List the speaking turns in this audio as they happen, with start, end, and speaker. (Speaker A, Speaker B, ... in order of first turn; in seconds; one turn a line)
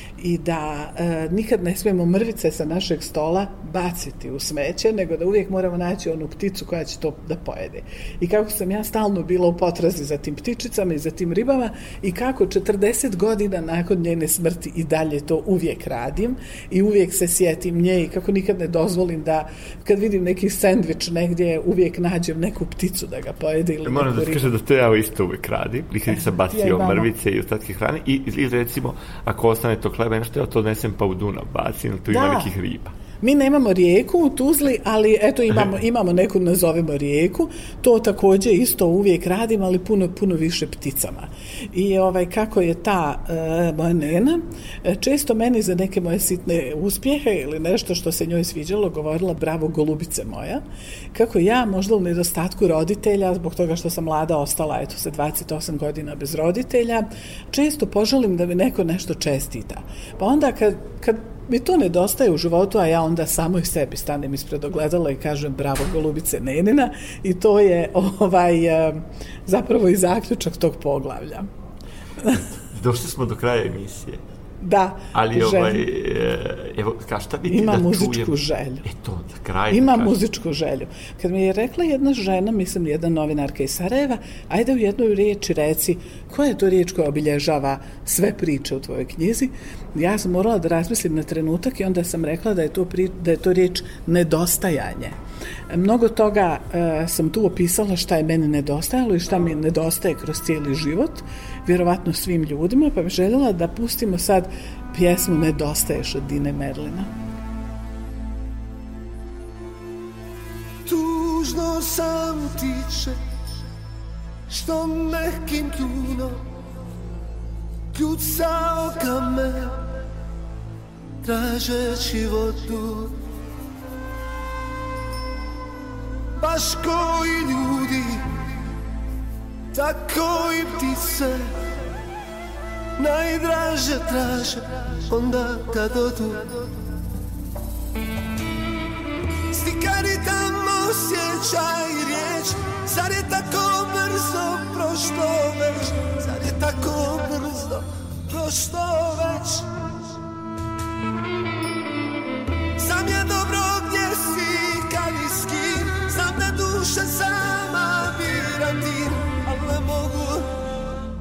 Speaker A: 0.2-24.5
Speaker B: 23.8-32.9
Speaker A: 26.1-27.1
Speaker A: 32.1-32.5
Speaker A: 33.2-50.6
Speaker A: 51.1-71.5
Speaker B: 72.3-74.2
Speaker A: 74.6-75.9
Speaker B: 75.1-80.2
Speaker A: 77.5-78.8
Speaker A: 79.7-95.1
Speaker A: 95.7-107.1
Speaker C: 110.8-113.2
Speaker C: 114.5-116.5
Speaker C: 117.9-119.8
Speaker C: 121.2-123.2
Speaker C: 126.4-128.3
Speaker C: 129.7-131.6
Speaker C: 133.0-136.6
Speaker C: 139.5-149.7
Speaker C: 152.8-160.5